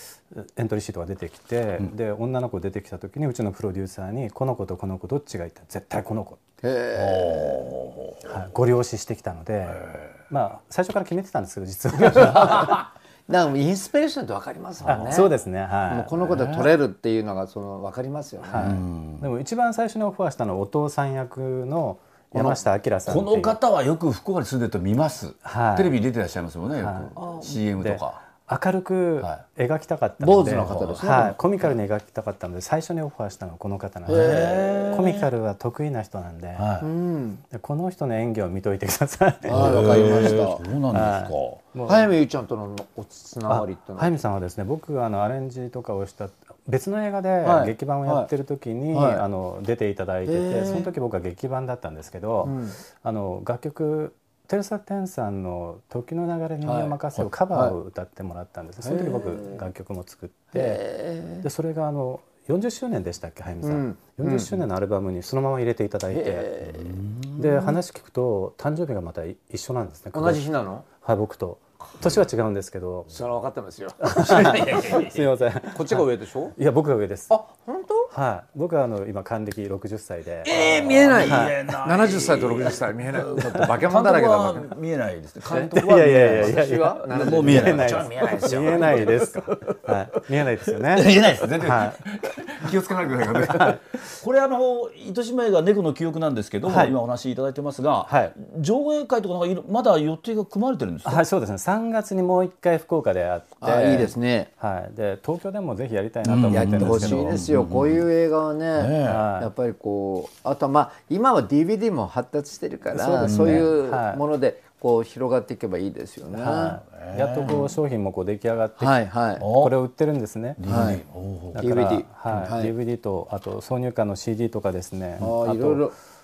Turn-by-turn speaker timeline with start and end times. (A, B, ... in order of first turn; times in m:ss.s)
0:00.3-0:06.4 A
0:06.6-0:07.7 B
0:06.9-0:08.2 C
0:08.2-0:12.8 A
0:12.0-0:15.3 B
0:14.8-0:16.2 A
0:15.9-0:18.8 B
0:16.3-0:16.7 C
0:18.5-0:23.6 A
0:18.6-0:19.2 C
0:22.3-0:22.6 B
0:23.1-0:28.2 C
0:25.4-0:25.9 A
0:26.8-0:27.1 A
0:27.2-0:27.6 B
0:27.8-0:36.7 A
0:30.2-0:31.4 B
0:30.5-0:31.0 C
0:34.1-0:35.3 C
0:36.6-0:36.9 C
0:36.8-0:37.4 B
0:37.5-0:42.1 A
0:39.4-0:40.6 B
0:39.5-0:41.6 C
0:41.8-0:44.1 B
0:43.5-1:00.8 A
0:47.4-0:48.3 B
0:48.9-0:49.2 B
0:50.2-0:50.9 B
0:52.4-0:52.8 B
0:56.6-0:57.0 B
0:58.8-0:59.6 B
1:00.5-1:01.4 B
1:01.4-1:06.5 A
1:03.6-1:04.5 B
1:06.1-1:07.0 B
1:06.6-1:07.4 C
1:07.4-1:10.4 A
1:10.1-1:10.8 B
1:11.0-1:13.1 A
1:13.1-1:16.6 B
1:14.0-1:17.3 A
1:14.3-1:15.1 C
1:17.3-1:18.1 B
1:18.1-1:20.6 A
1:20.4-1:29.3 C
1:20.5-1:24.7 B
1:21.1-1:21.6 A
1:25.4-1:29.2 B
1:25.7-1:32.0 A
1:30.8-1:41.2 C
1:33.5-1:33.8 A
1:36.6-1:37.0 A
1:38.1-1:38.3 A
1:41.0-1:47.4 A
1:43.6-1:44.5 B
1:46.2-1:48.0 C
1:46.5-1:56.8 B
1:48.7-1:49.2 C
1:49.0-1:49.5 A
1:52.9-1:54.2 A
1:53.2-1:53.6 C
1:56.3-2:00.6 A
1:56.9-1:57.6 C
1:57.4-1:57.7 B
1:58.8-1:59.5 B
1:59.4-1:59.7 C
2:00.6-2:01.6 C
2:00.6-2:01.0 B
2:01.5-2:05.9 A
2:01.6-2:02.7 B
2:05.2-2:05.9 B